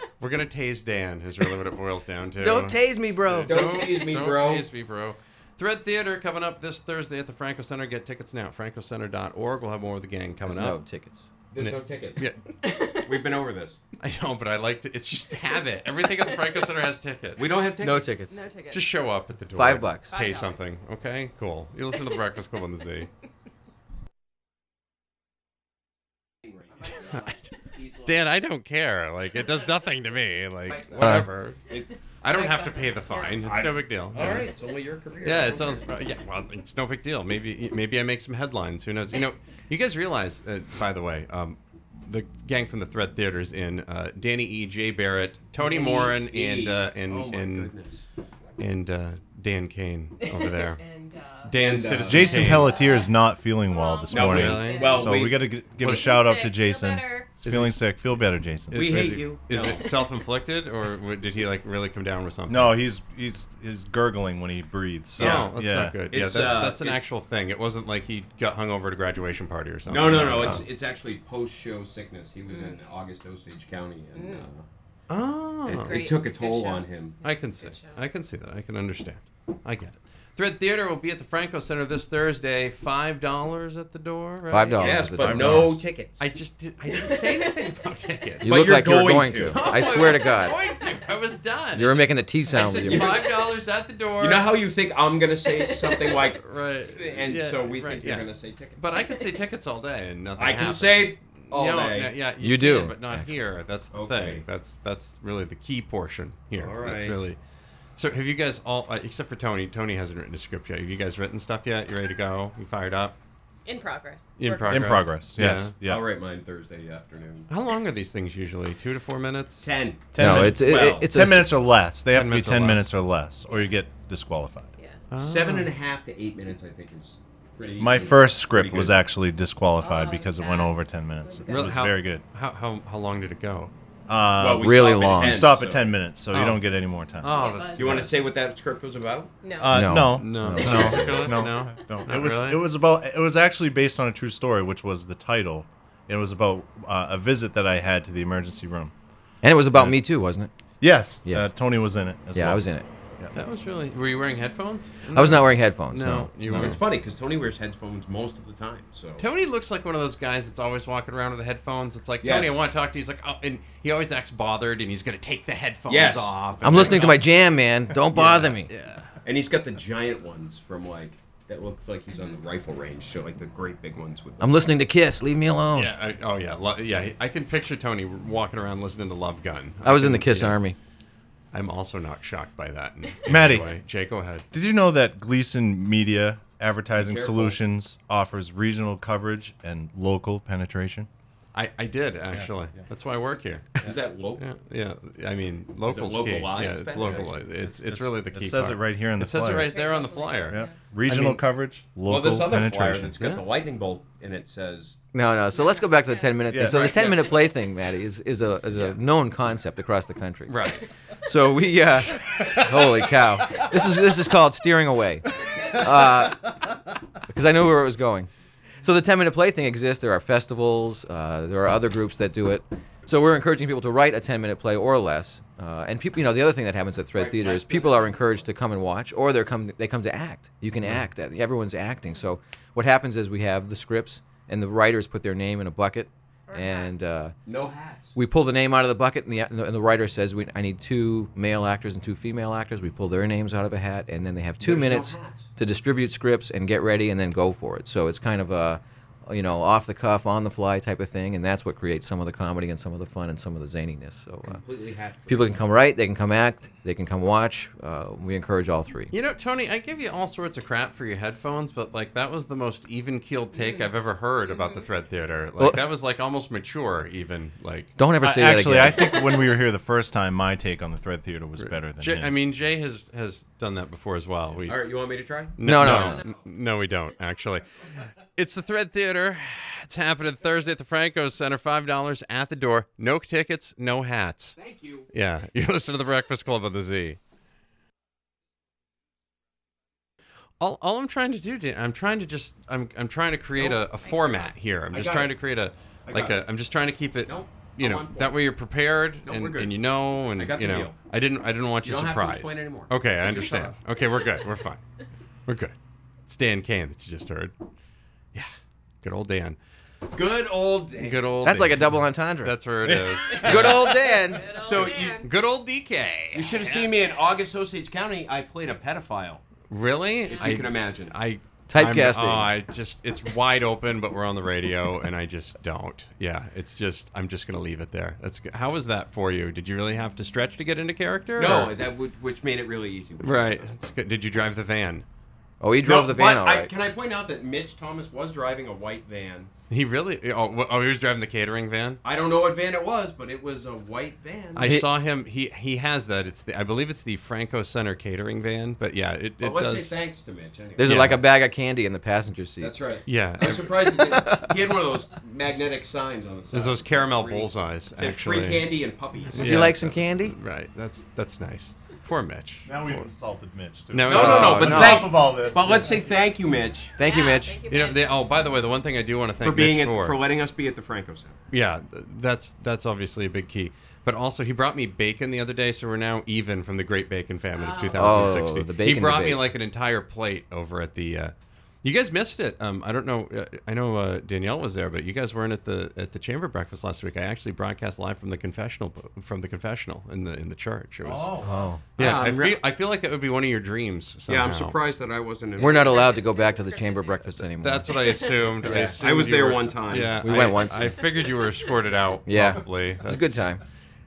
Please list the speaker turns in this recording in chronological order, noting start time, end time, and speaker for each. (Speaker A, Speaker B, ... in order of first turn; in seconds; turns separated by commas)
Speaker A: 0.2-10.8, Speaker B: 2.4-3.7, Speaker C: 3.4-4.7, Speaker B: 10.4-11.3, Speaker C: 11.5-12.3, Speaker A: 11.6-12.4, Speaker D: 12.6-13.2, Speaker C: 13.0-13.8, Speaker A: 14.0-17.6, Speaker C: 17.4-18.2, Speaker B: 17.8-18.4, Speaker D: 18.3-18.9, Speaker A: 18.7-23.1, Speaker B: 19.5-20.2, Speaker D: 20.1-20.7, Speaker C: 26.5-28.2, Speaker A: 26.8-31.6, Speaker C: 30.8-31.9, Speaker B: 31.0-31.3, Speaker A: 32.2-34.5, Speaker D: 32.3-33.4, Speaker C: 33.4-35.9, Speaker A: 35.2-47.7, Speaker C: 45.6-48.1, Speaker A: 48.6-50.8, Speaker D: 50.2-51.6, Speaker A: 51.4-52.8, Speaker C: 51.6-52.4, Speaker E: 52.1-58.9, Speaker D: 52.1-55.1, Speaker C: 54.1-55.5, Speaker A: 54.2-55.1, Speaker A: 55.8-56.1, Speaker D: 55.9-57.4, Speaker A: 57.4-58.1, Speaker A: 58.7-62.8, Speaker C: 58.7-59.8, Speaker D: 59.7-60.0, Speaker E: 62.5-66.1, Speaker A: 65.2-70.7, Speaker C: 65.2-65.5, Speaker C: 66.1-67.1, Speaker C: 69.9-74.7, Speaker D: 72.5-72.8, Speaker D: 74.1-74.5, Speaker A: 75.1-76.1, Speaker C: 75.7-77.2, Speaker D: 75.7-78.0, Speaker A: 77.2-88.6, Speaker B: 84.5-85.7, Speaker C: 84.8-86.3, Speaker E: 85.2-85.8, Speaker B: 88.4-90.5, Speaker C: 88.4-89.7, Speaker A: 89.5-94.5, Speaker B: 91.7-93.2, Speaker C: 92.8-93.5, Speaker C: 94.2-99.1, Speaker A: 96.0-107.4, Speaker C: 100.4-102.2, Speaker B: 102.4-103.3, Speaker C: 103.9-104.5, Speaker C: 106.5-107.2, Speaker A: 108.0-113.2, Speaker D: 113.7-115.0, Speaker A: 114.4-115.8, Speaker E: 114.6-116.1, Speaker C: 115.8-117.5, Speaker A: 117.5-119.7, Speaker C: 119.6-121.1, Speaker E: 120.1-124.7, Speaker B: 120.2-121.6, Speaker A: 122.1-122.9, Speaker D: 124.8-125.0, Speaker A: 125.1-125.7, Speaker C: 125.2-129.0, Speaker D: 127.5-128.3, Speaker E: 127.8-132.2, Speaker D: 129.8-131.7, Speaker A: 131.5-133.7, Speaker E: 134.1-138.1, Speaker C: 134.4-136.0, Speaker B: 134.6-135.4, Speaker A: 136.3-136.7, Speaker A: 137.2-138.1, Speaker D: 137.3-138.0, Speaker C: 137.7-139.4, Speaker D: 139.4-139.8, Speaker E: 139.6-148.9, Speaker B: 139.7-141.4, Speaker A: 140.1-142.7, Speaker B: 149.4-150.5, Speaker E: 149.7-150.1, Speaker E: 150.8-152.7, Speaker B: 151.2-151.5, Speaker B: 152.3-152.9, Speaker A: 153.3-156.8, Speaker B: 155.1-156.8, Speaker C: 156.5-159.3, Speaker A: 159.2-167.3, Speaker C: 162.2-162.6, Speaker C: 165.9-167.1, Speaker B: 166.6-168.7, Speaker A: 168.1-169.1, Speaker C: 169.2-174.6, Speaker B: 174.4-175.9, Speaker A: 175.7-180.6, Speaker B: 179.8-180.8, Speaker A: 181.5-184.4, Speaker E: 183.3-183.7, Speaker E: 184.5-191.1, Speaker C: 187.0-187.6, Speaker A: 191.5-201.4, Speaker E: 192.3-192.6, Speaker C: 193.8-194.4, Speaker C: 195.8-197.6, Speaker E: 197.7-199.8, Speaker D: 199.6-200.8, Speaker E: 200.5-203.3, Speaker C: 202.1-205.0, Speaker B: 205.1-216.6, Speaker D: 205.6-206.5, Speaker E: 206.5-207.2, Speaker C: 206.8-207.3, Speaker A: 208.7-209.0, Speaker A: 210.5-210.9, Speaker B: 217.3-218.3, Speaker B: 218.8-237.4, Speaker C: 227.1-228.3, Speaker D: 236.5-236.9, Speaker C: 237.5-238.2, Speaker B: 238.2-254.6, Speaker C: 244.6-245.5, Speaker C: 254.5-255.6, Speaker B: 255.3-259.1, Speaker A: 259.1-267.9, Speaker D: 263.6-263.9, Speaker D: 264.5-264.9, Speaker B: 268.0-269.2, Speaker E: 268.2-272.5, Speaker A: 271.6-274.8, Speaker C: 274.6-275.9, Speaker A: 275.6-284.6, Speaker B: 275.6-276.2, Speaker D: 275.9-276.4, Speaker C: 284.6-285.1, Speaker A: 285.1-287.2, Speaker A: 290.6-304.8, Speaker C: 294.9-295.4, Speaker C: 296.1-296.4, Speaker C: 297.3-298.4, Speaker C: 299.2-299.8, Speaker C: 300.4-301.0, Speaker C: 301.8-303.8, Speaker A: 305.5-305.8, Speaker A: 306.3-307.6, Speaker A: 309.0-309.6, Speaker C: 310.1-311.3, Speaker A: 311.0-314.0, Speaker B: 311.4-312.6, Speaker B: 313.3-314.5, Speaker D: 314.1-315.3, Speaker C: 314.5-315.2, Speaker A: 314.8-316.9, Speaker C: 316.3-319.4, Speaker A: 319.7-331.8, Speaker D: 320.3-320.5, Speaker C: 320.3-321.2, Speaker B: 321.7-322.5, Speaker C: 331.4-333.7, Speaker A: 333.2-335.1, Speaker B: 335.6-336.7, Speaker C: 335.8-339.5, Speaker A: 339.7-342.0, Speaker C: 342.0-344.7, Speaker A: 344.5-350.0, Speaker B: 344.6-344.9, Speaker C: 349.4-350.9, Speaker B: 350.8-352.8, Speaker A: 350.8-351.2, Speaker C: 352.6-359.5, Speaker A: 353.1-353.9, Speaker B: 353.8-354.5, Speaker A: 356.5-358.7, Speaker A: 359.3-363.1, Speaker B: 359.4-360.4, Speaker E: 362.7-366.0, Speaker A: 363.9-364.9, Speaker C: 364.1-367.0, Speaker B: 364.1-365.1, Speaker B: 367.0-367.6, Speaker D: 367.0-368.4, Speaker A: 367.7-370.2, Speaker C: 369.4-371.4, Speaker A: 371.5-391.4, Speaker D: 377.5-378.1, Speaker B: 377.9-379.5, Speaker E: 391.0-391.8, Speaker B: 391.4-391.8, Speaker C: 392.0-392.6, Speaker A: 392.0-394.8, Speaker C: 394.3-396.2, Speaker B: 395.6-398.1, Speaker D: 395.6-397.3, Speaker A: 397.3-403.5, Speaker D: 398.1-398.4, Speaker B: 398.6-399.0, Speaker C: 398.8-400.5, Speaker B: 400.2-401.1, Speaker B: 402.3-403.6